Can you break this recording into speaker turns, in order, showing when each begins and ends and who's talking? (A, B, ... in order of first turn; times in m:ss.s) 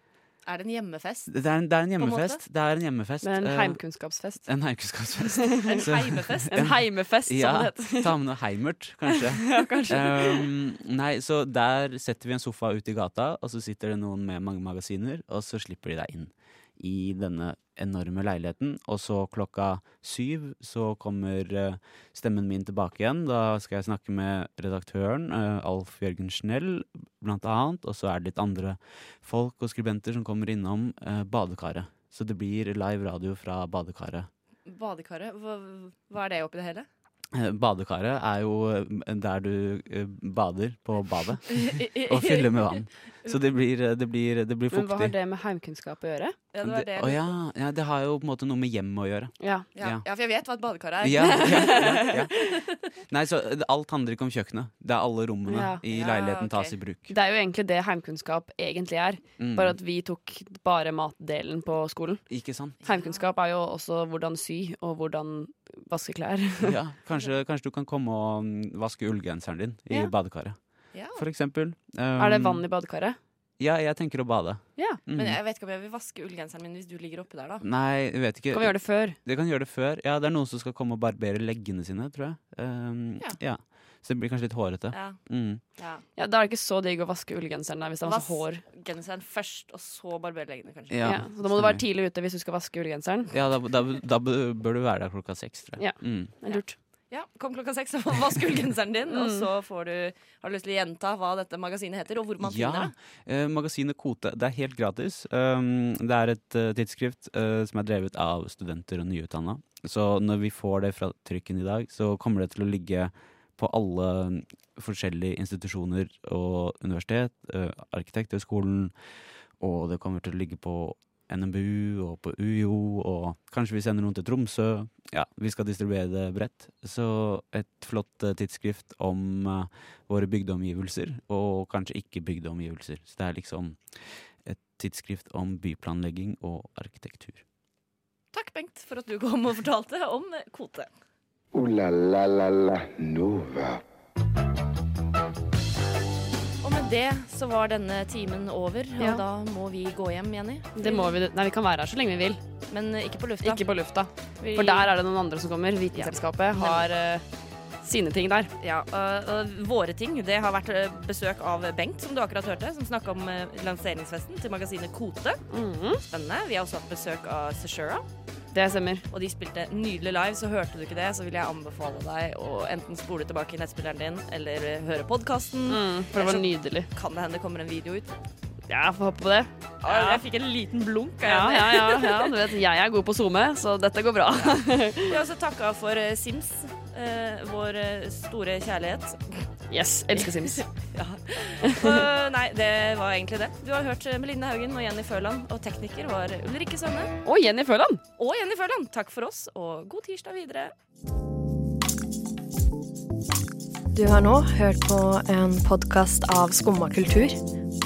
0:00.4-0:01.3 A
0:01.3-0:03.8 B
0:02.0-0:02.4 A
0:03.2-0:04.5 C
0:04.5-0:34.3 B
0:05.3-0:05.8 C
0:05.6-0:06.7 A
0:06.5-0:08.2 C
0:09.1-0:10.5 C
0:34.7-0:36.9 A
0:37.3-0:45.1 B
0:41.5-0:43.4 A
0:44.7-0:46.4 C
0:46.5-0:47.4 A
0:46.6-0:50.0 B
0:49.4-0:49.7 C
0:49.8-0:52.2 A
0:51.0-0:52.3 B
0:51.2-0:52.4 C
0:53.1-0:57.1 B
0:55.5-0:55.8 C
0:55.9-0:56.8 A
0:57.1-1:02.2 C
0:59.4-0:59.8 B
1:02.3-1:02.8 B
1:02.8-1:06.8 C
1:02.8-1:03.2 A
1:06.6-1:10.6 B
1:10.9-1:11.2 A
1:11.1-1:12.6 B
1:12.2-1:13.2 C
1:13.6-1:15.4 B
1:15.2-1:17.7 A
1:17.6-1:25.6 B
1:18.5-1:19.2 C
1:24.9-1:25.2 A
1:25.8-1:26.0 A
1:26.2-1:28.6 C
1:28.0-1:31.2 A
1:30.9-1:31.8 B
1:31.0-1:33.3 C
1:33.3-1:36.4 B
1:35.8-1:36.8 C
1:37.1-1:42.9 A
1:39.1-1:39.4 C
1:42.4-1:58.9 B
1:59.6-2:13.8 B
2:14.4-2:17.4 B
2:18.3-2:20.9 A
2:21.5-2:23.8 D
2:26.6-2:31.2 A
2:29.0-2:29.2 C
2:30.8-2:32.4 C
2:32.7-2:33.6 A
2:33.4-2:37.2 C
2:34.4-2:34.9 A
2:35.9-2:36.8 A
2:37.8-2:38.5 C
2:38.6-2:45.4 A
2:45.5-2:46.0 C
2:46.0-2:48.0 A
2:48.5-2:49.0 C
2:49.1-2:58.1 A
2:55.7-2:56.9 C
2:58.7-3:00.2 C
2:59.8-3:02.4 A
3:01.2-3:05.2 C
3:04.4-3:09.4 A
3:09.7-3:10.6 C
3:10.2-3:17.1 A
3:11.6-3:12.1 C
3:17.2-3:18.0 C
3:18.2-3:20.7 A
3:23.9-3:27.4 E